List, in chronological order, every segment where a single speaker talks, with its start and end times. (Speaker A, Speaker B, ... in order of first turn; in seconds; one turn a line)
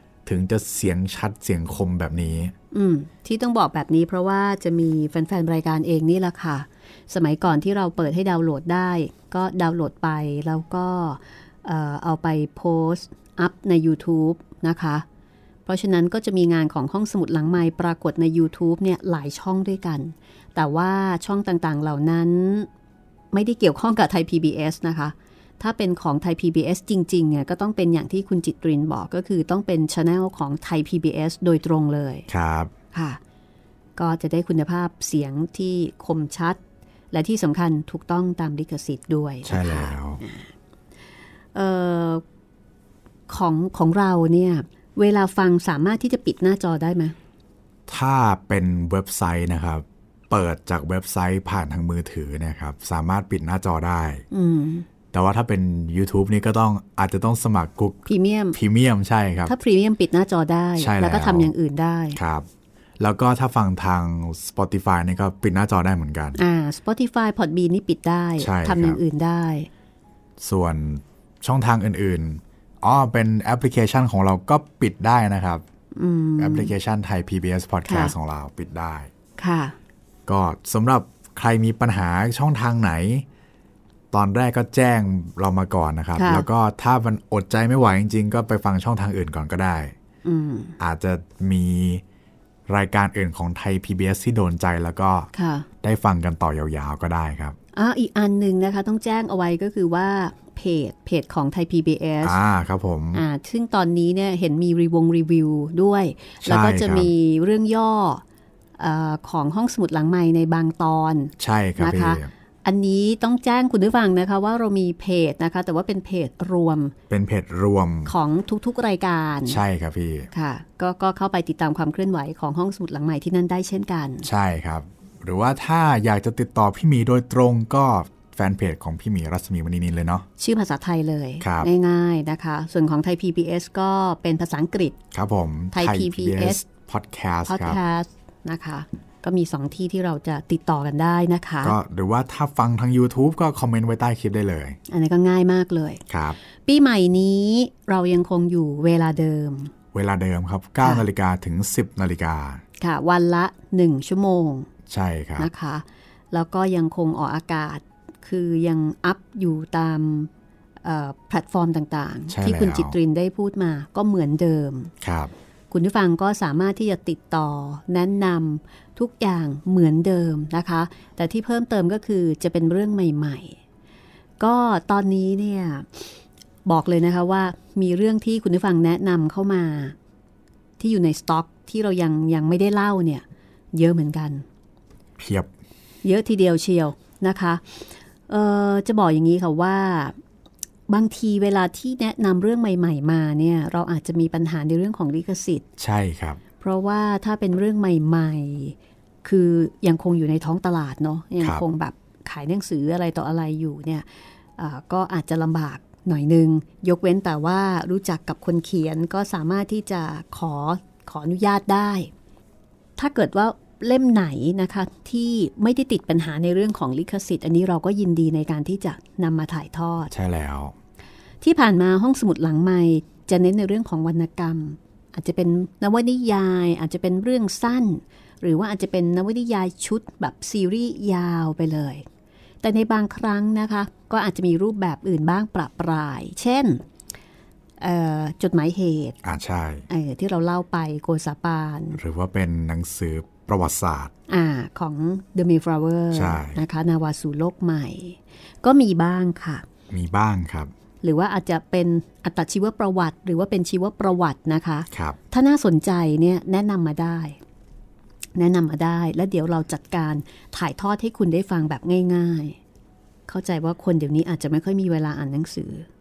Speaker A: 0.2-2.5
Speaker B: 2.7-15.0
Speaker B: 15.7-22.7
Speaker B: 23.3-32.3
Speaker A: 32.3-32.7
Speaker B: 32.9-33.2
Speaker B: 34.0-36.6
Speaker B: 37.1-40.5
Speaker A: 39.4-40.2
Speaker B: 41.5-42.2
Speaker B: 43.3-47.1
Speaker A: 47.9-54.2
Speaker B: 54.3-54.9
Speaker A: 55.1-59.5
Speaker B: 58.1-58.6
Speaker B: 59.5-62.2
Speaker A: 60.8-61.5
Speaker A: 62.1-62.5
Speaker A: 63.0-66.4
Speaker B: 66.3-69.7
Speaker A: 68.4-69.0
Speaker A: 70.4-75.6
Speaker B: 75.9-76.7
Speaker A: 76.4-79.1
Speaker B: 77.8-78.1
Speaker B: 79.4-79.7
Speaker A: 80.3-83.2
Speaker A: 84.1-89.9
Speaker B: 86.2-86.5
Speaker B: 90.2-90.8
Speaker A: 90.8-92.0
Speaker A: 92.7-95.3
Speaker B: 95.3-95.7
Speaker A: 95.8-97.5
Speaker B: 97.7-102.4
Speaker A: 102.2-103.2
Speaker B: 103.1-108.2
Speaker A: 106.4-107.1
Speaker B: 108.8-116.9
Speaker A: 111.4-112.3
Speaker A: 117.1-118.1
Speaker B: 118.0-119.6
Speaker A: 119.5-120.3
Speaker B: 120.3-124.3
Speaker A: 124.2-130.2
Speaker B: 130.4-135.0
Speaker A: 131.4-131.7
Speaker A: 135.1-137.8
Speaker B: 135.7-136.6
Speaker B: 137.5-141.8
Speaker A: 141.6-144.8
Speaker B: 144.9-146.0
Speaker A: 146.1-146.4
Speaker B: 146.6-149.7
Speaker A: 149.9-152.6
Speaker B: 152.8-154.7
Speaker A: 154.9-155.5
Speaker B: 155.4-160.3
Speaker B: 160.8-164.9
Speaker A: 162.3-162.9
Speaker A: 165.0-165.3
Speaker B: 165.7-173.6
Speaker B: 174.4-175.9
Speaker B: 176.7-179.9
Speaker B: 180.8-184.4
Speaker A: 185.2-185.5
Speaker B: 186.0-187.6
Speaker B: 188.3-190.1
Speaker B: 190.9-195.6
Speaker A: 195.8-196.4
Speaker B: 196.6-212.1
Speaker B: 213.0-220.1
Speaker A: 220.1-220.7
Speaker B: 221.4-232.0
Speaker B: 232.6-236.8
Speaker B: 237.8-239.2
Speaker A: 239.2-239.8
Speaker B: 239.9-242.0
Speaker A: 241.9-244.1
Speaker B: 244.3-249.7
Speaker A: 246.1-246.6
Speaker A: 249.9-250.7
Speaker B: 251.0-257.4
Speaker A: 254.9-255.2
Speaker B: 258.4-262.6
Speaker B: 263.3-265.9